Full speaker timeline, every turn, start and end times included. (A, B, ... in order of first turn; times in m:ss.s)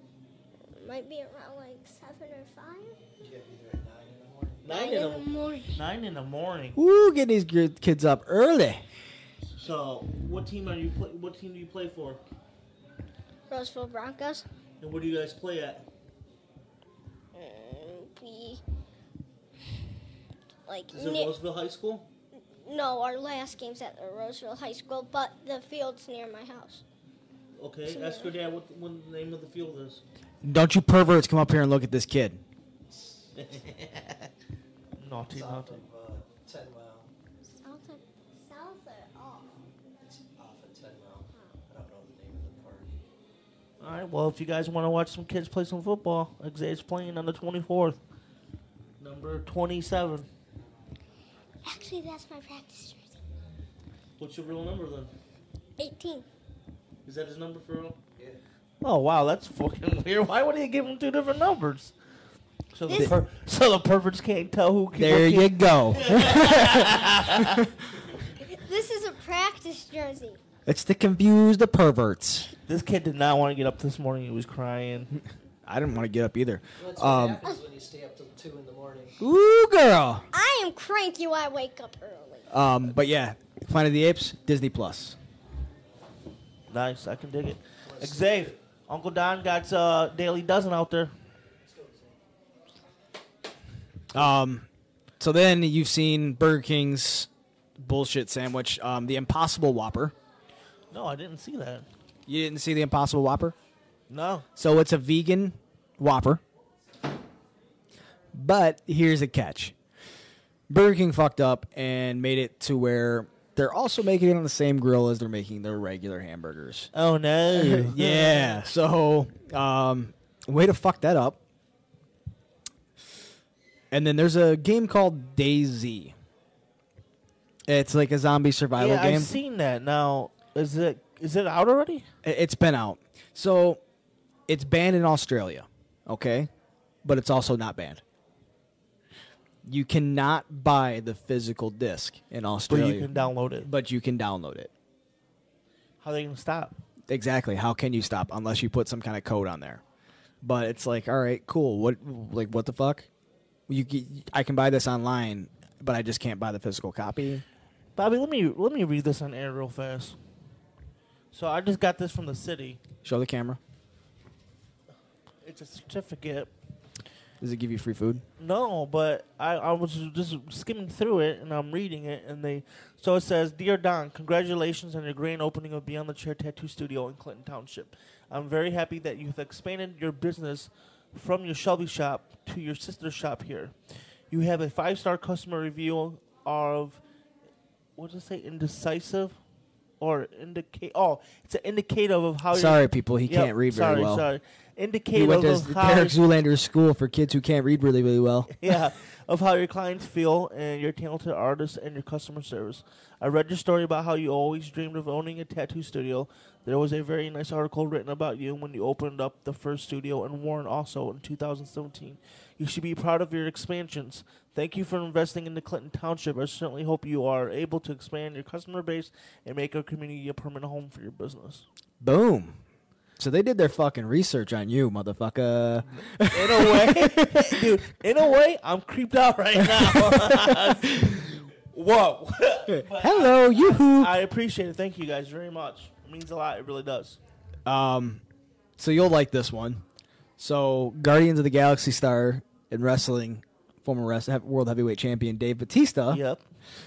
0:00.7-0:03.0 A
0:03.2-0:04.7 B
0:04.6-0:06.8 C
0:04.7-0:05.7 A
0:06.8-0:08.8 D
0:09.6-0:12.2 C
0:13.5-0:14.4 A
0:14.8-0:15.8 C
0:17.3-0:18.6 A
0:20.7-0:21.3 A
0:20.9-0:22.1 C
0:22.6-0:26.8 A
0:27.6-0:30.0 C
0:27.9-0:28.3 A
0:30.4-0:32.4 D
0:33.4-0:34.3 C
0:35.0-0:35.8 C
0:35.3-0:37.1 B
0:37.6-0:39.6 A
0:40.0-0:42.9 B
0:43.8-0:48.0 C
0:49.0-0:50.3 C
0:51.6-0:53.2 A
0:54.2-0:55.1 C
0:55.8-0:56.2 A
0:57.0-0:58.0 C
0:58.8-1:01.9 C
1:02.7-1:07.6 C
1:02.9-1:03.1 A
1:04.9-1:07.7 D
1:08.4-1:10.4 A
1:10.6-1:12.5 D
1:12.7-1:15.1 C
1:15.6-1:17.4 D
1:16.8-1:19.2 B
1:19.2-1:20.2 D
1:20.3-1:22.5 A
1:22.5-1:25.2 D
1:26.7-1:31.1 C
1:27.8-1:28.6 B
1:31.6-1:32.2 B
1:34.1-1:34.7 D
1:35.2-1:40.1 D
1:40.9-1:41.8 C
1:42.3-1:43.5 D
1:44.1-1:44.4 C
1:44.6-1:46.4 D
1:48.3-1:49.7 D
1:50.7-1:56.9 D
1:56.9-1:58.6 C
1:57.5-2:01.4 D
2:03.9-2:06.1 D
2:07.7-2:09.3 D
2:08.8-2:12.1 C
2:12.2-2:13.8 D
2:14.5-2:16.5 D
2:17.0-2:18.0 D
2:19.6-2:23.1 D
2:22.7-2:23.7 C
2:23.6-2:24.7 D
2:26.0-2:26.7 C
2:27.1-2:29.8 D
2:30.4-2:33.1 D
2:33.7-2:37.4 D
2:38.0-2:40.2 C
2:41.3-2:42.8 C
2:43.0-2:43.6 D
2:45.4-2:46.5 C
2:47.4-2:48.2 D
2:48.4-3:03.7 C
3:04.3-3:07.0 C
3:08.0-3:09.4 C
3:10.0-3:16.2 C
3:12.5-3:14.3 D
3:15.1-3:18.7 D
3:18.6-3:41.6 C
3:42.0-3:42.6 D
3:43.2-3:47.7 D
3:46.2-3:57.2 C
3:49.8-3:51.2 D
3:52.7-3:54.1 D
3:57.6-3:58.2 D
3:58.8-3:59.8 D
4:00.4-4:06.2 D
4:06.1-4:06.4 C